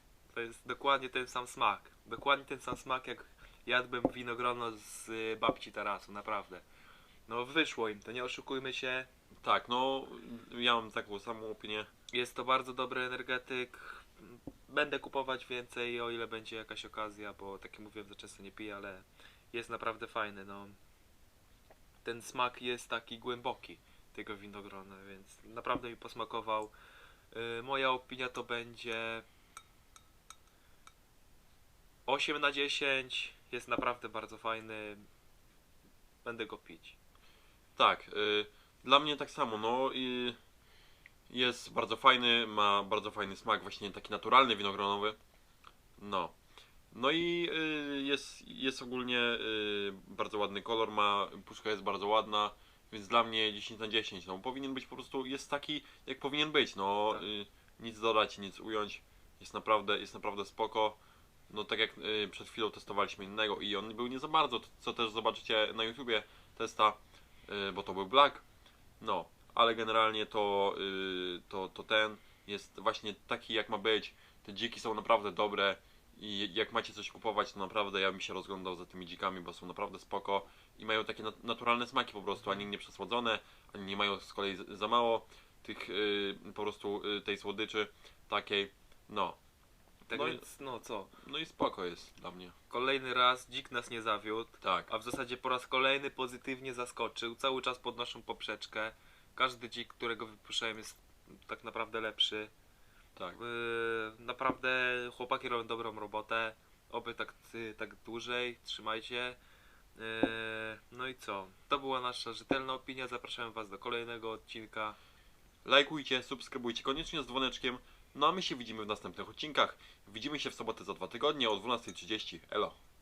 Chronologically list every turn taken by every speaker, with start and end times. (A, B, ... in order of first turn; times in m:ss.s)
0:00.3-0:06.6 A
0:07.3-0:09.1 A
0:09.4-0:11.9 B
0:12.1-0:20.8 A
0:22.0-0:26.7 A
0:27.3-0:29.2 A
0:32.1-0:35.1 A
0:36.2-0:36.9 A
0:37.8-0:40.4 B
0:41.3-0:45.2 B
0:46.0-0:46.3 B
0:46.9-1:01.0 B
1:01.5-1:08.4 B
1:09.0-1:29.4 B
1:22.4-1:22.7 A
1:30.1-1:31.1 A
1:30.1-1:30.4 B
1:31.2-1:32.5 B
1:32.7-1:42.5 A
1:34.6-1:34.9 B
1:43.3-1:49.4 A
1:50.0-1:55.0 A
1:55.6-2:02.8 B